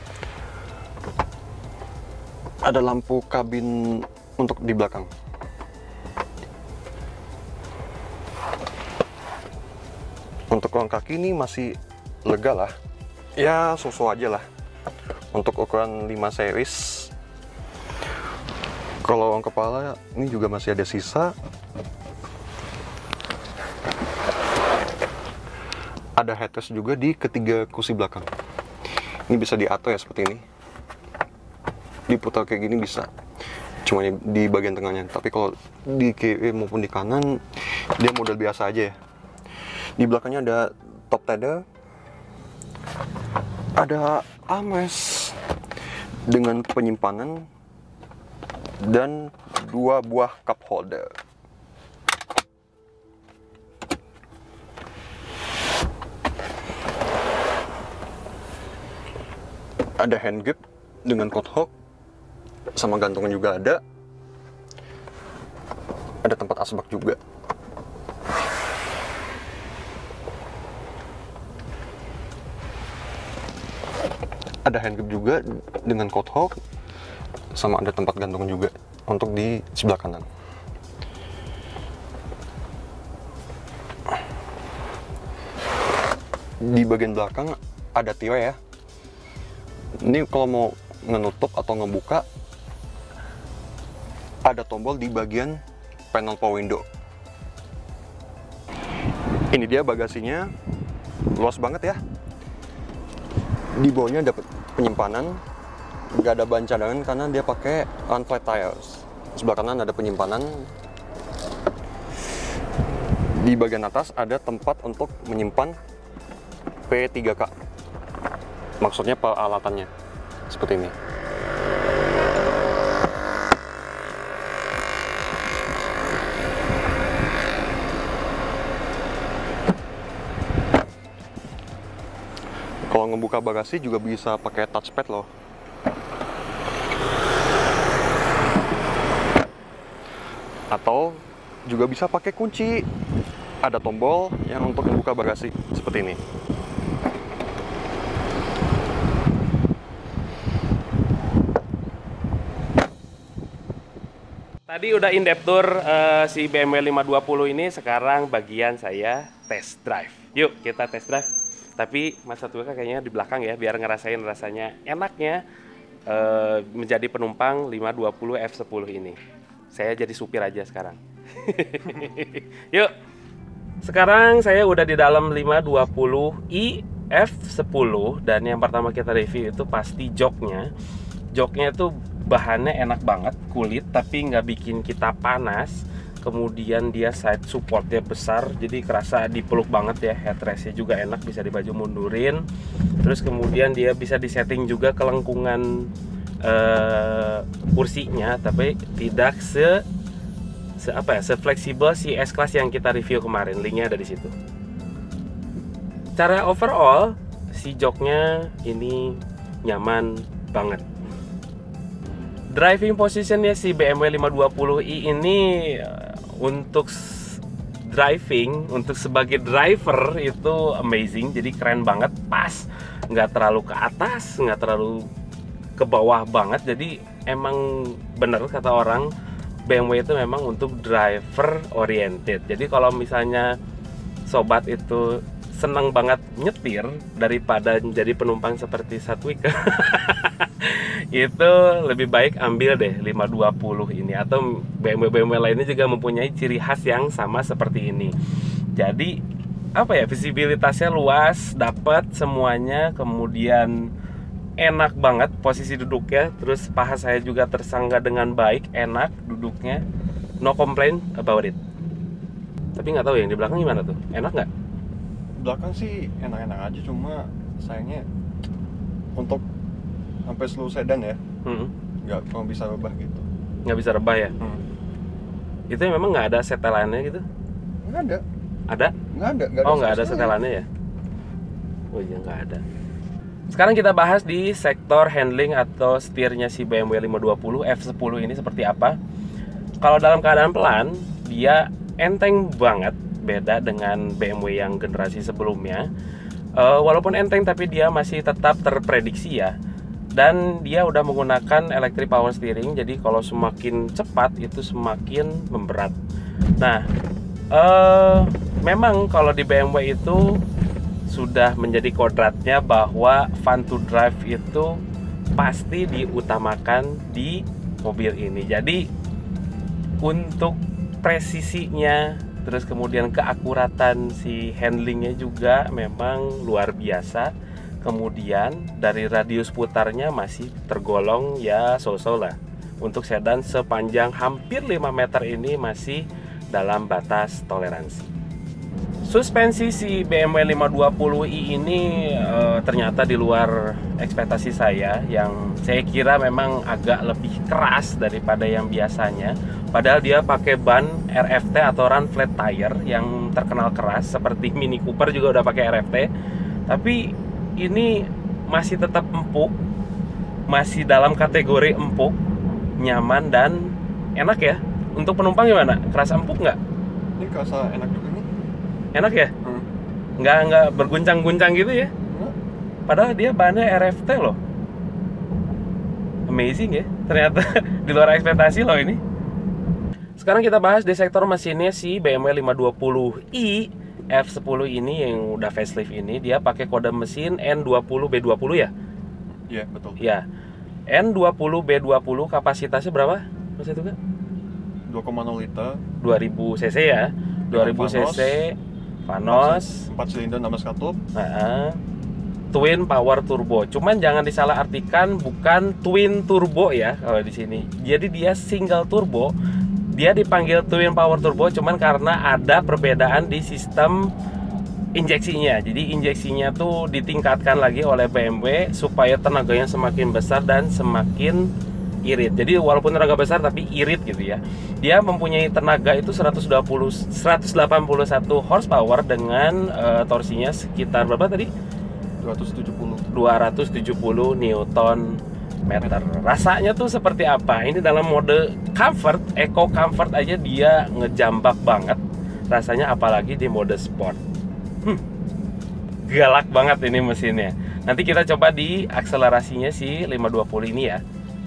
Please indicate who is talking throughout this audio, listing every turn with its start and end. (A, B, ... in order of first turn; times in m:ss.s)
0:02.6-0:05.1 A
0:10.5-0:12.7 A
0:13.4-0:14.4 A
0:15.3-0:17.1 A
0:19.0-0:21.3 A
0:26.2-0:28.3 A
0:29.3-0:30.4 A
0:32.1-0:33.1 A
0:33.8-0:39.0 A
0:40.0-0:41.6 A
0:43.8-0:45.4 A
0:46.3-0:47.5 A
0:48.8-0:51.1 A
1:00.0-1:01.7 A
1:02.8-1:03.8 A
1:06.2-1:07.2 A
1:14.6-1:16.6 A
1:17.5-1:20.3 A
1:26.6-1:28.6 A
1:30.0-1:32.3 A
1:34.4-1:36.8 A
1:39.5-1:40.5 A
1:41.3-1:42.0 A
1:43.8-1:45.4 A
1:46.1-1:50.7 A
1:53.3-1:55.8 A
1:56.9-1:57.5 A
1:58.8-1:59.9 A
2:00.5-2:00.9 A
2:12.9-2:15.3 A
2:20.7-2:22.9 A
2:23.6-2:26.2 A
2:34.7-2:45.4 B
2:46.1-2:49.2 B
2:49.7-2:52.9 B
2:53.8-3:00.7 B
3:01.3-3:12.4 B
3:13.0-3:15.9 B
3:16.4-3:19.8 B
3:20.8-3:24.3 B
3:26.2-3:30.9 B
3:32.5-3:45.1 B
3:45.8-3:49.1 B
3:49.7-3:53.5 B
3:54.3-4:08.1 B
4:08.8-4:09.2 B
4:09.8-4:13.7 B
4:14.6-4:19.8 B
4:20.4-4:21.6 B
4:22.8-4:24.5 B
4:25.4-4:28.0 A
4:29.1-4:29.4 A
4:30.3-4:31.2 A
4:31.4-4:31.7 B
4:32.0-4:33.2 A
4:33.6-4:34.3 B
4:35.7-4:37.2 B
4:37.8-4:38.2 A
4:39.1-4:40.3 A
4:39.6-4:40.6 B
4:41.9-4:42.6 B
4:43.5-4:49.0 B
4:49.8-4:55.9 B
4:56.6-4:59.5 B
5:00.2-5:06.0 B
5:06.6-5:06.8 B
5:07.5-5:10.4 B
5:11.1-5:14.8 B
5:15.4-5:18.9 B
5:20.0-5:27.3 B
5:27.8-5:38.1 B
5:39.0-5:56.1 B
5:56.7-5:59.5 B
6:00.5-6:02.2 B
6:02.8-6:06.6 B
6:07.2-6:08.3 A
6:08.9-6:09.3 B
6:10.2-6:11.9 B
6:12.1-6:12.3 A
6:12.9-6:14.4 B
6:16.3-6:19.0 B
6:20.2-6:28.7 B
6:29.5-6:30.0 A
6:30.0-6:30.2 B
6:30.9-6:33.9 B
6:34.9-6:35.8 A
6:36.0-6:38.6 B
6:37.5-6:38.4 A
6:39.1-6:39.8 B
6:39.3-6:41.0 A
6:41.1-6:41.8 B
6:42.5-6:49.3 B
6:49.9-6:54.1 B
6:55.0-7:01.5 B
7:02.0-7:11.5 B
7:12.2-7:13.1 A
7:13.1-7:22.0 B
7:22.5-7:24.2 B
7:26.1-7:31.0 B